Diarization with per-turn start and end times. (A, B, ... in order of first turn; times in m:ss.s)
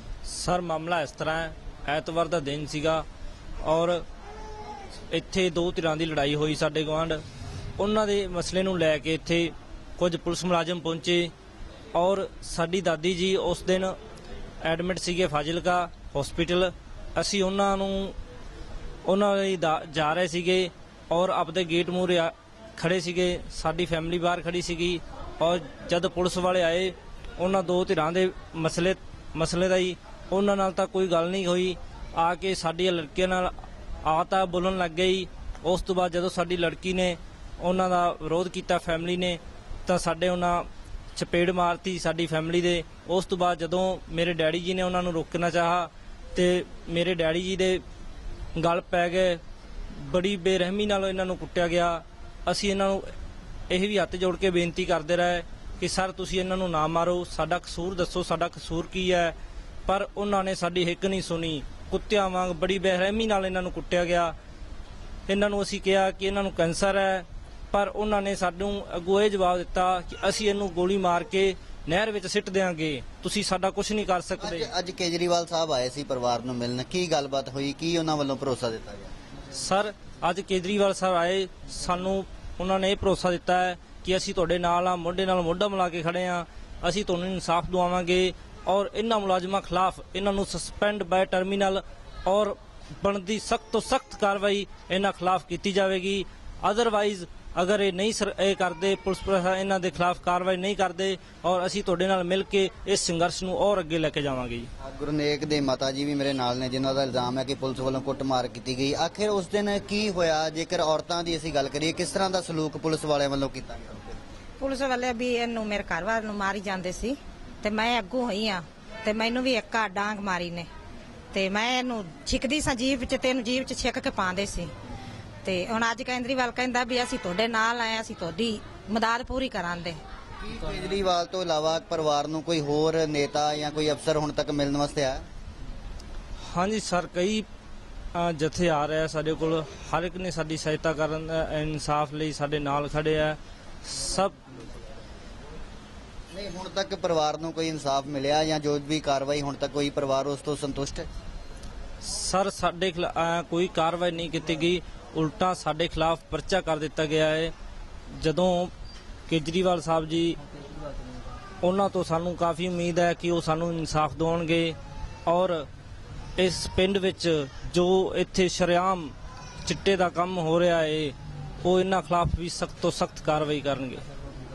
0:00.2-0:03.0 A
0:03.6-0:04.0 A
0:05.1-0:07.2 A
0:07.8-0:11.3 A
0:12.0-0:14.0 A
0:14.6-0:18.2 A
0:19.1-0:47.8 A
0:48.6-0:53.1 A
0:53.7-0:59.4 A
0:59.9-1:04.4 A
1:05.3-1:14.7 A
1:14.4-1:19.1 B
1:19.5-1:44.7 A
1:44.8-1:54.2 B
1:54.6-2:00.7 C
2:01.3-2:04.7 C
2:05.4-2:10.0 C
2:10.4-2:15.2 B
2:16.5-2:17.4 A
2:18.1-2:24.4 A
2:26.3-2:31.1 B
2:32.0-2:37.5 A
2:38.1-2:38.7 A
2:39.3-2:40.4 A
2:41.6-2:45.7 A
2:46.4-2:54.0 A